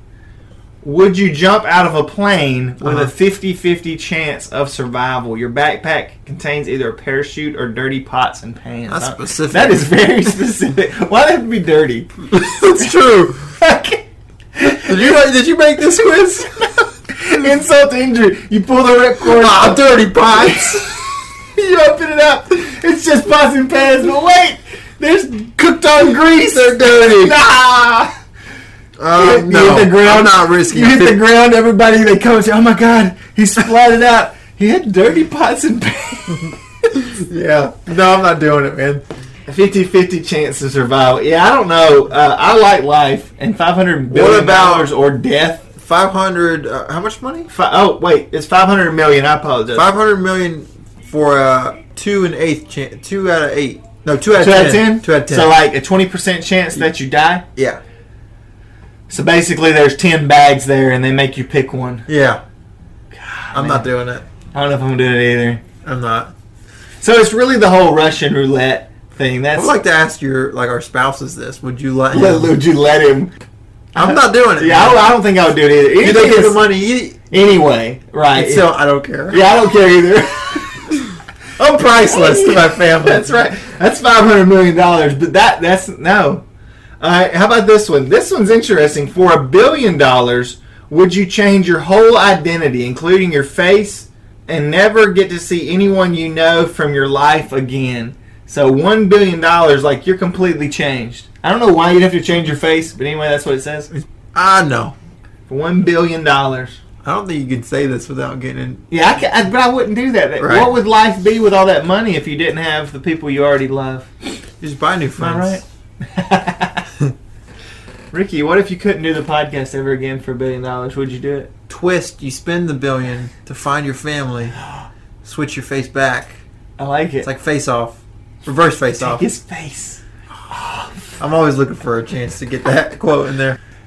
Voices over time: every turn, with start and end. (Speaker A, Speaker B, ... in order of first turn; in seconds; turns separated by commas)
Speaker A: 0.8-14.0, Speaker B: 2.8-3.1, Speaker B: 8.9-10.1, Speaker B: 12.3-13.5, Speaker A: 14.6-15.2, Speaker B: 14.8-16.5, Speaker A: 16.0-28.1, Speaker B: 19.2-21.0, Speaker B: 26.8-27.3, Speaker B: 29.0-31.2, Speaker A: 29.1-36.6, Speaker B: 37.0-39.0, Speaker A: 39.5-45.6, Speaker B: 44.1-44.9, Speaker B: 45.8-47.5, Speaker A: 47.5-49.9, Speaker B: 49.7-55.5, Speaker A: 54.4-57.4, Speaker B: 57.6-57.8, Speaker A: 59.1-62.1, Speaker B: 62.1-62.4, Speaker A: 63.1-63.9, Speaker B: 63.5-64.2, Speaker A: 64.5-65.6, Speaker B: 65.8-66.3, Speaker A: 67.0-69.8, Speaker B: 69.5-72.6, Speaker A: 72.1-73.3, Speaker A: 74.0-76.7, Speaker B: 74.0-75.1, Speaker B: 76.0-77.2, Speaker A: 77.3-78.7, Speaker B: 78.3-79.5, Speaker A: 79.3-80.9, Speaker A: 81.6-86.4, Speaker B: 81.6-83.3, Speaker A: 87.0-103.9, Speaker B: 103.9-105.0, Speaker A: 105.5-106.8, Speaker B: 107.0-108.8, Speaker A: 108.9-114.1, Speaker B: 110.4-110.7, Speaker B: 114.6-115.6, Speaker A: 115.2-116.9, Speaker A: 118.1-121.5, Speaker B: 121.7-124.6, Speaker B: 125.2-126.4, Speaker A: 126.8-127.3, Speaker B: 127.2-129.3, Speaker A: 128.9-131.1, Speaker B: 131.2-133.6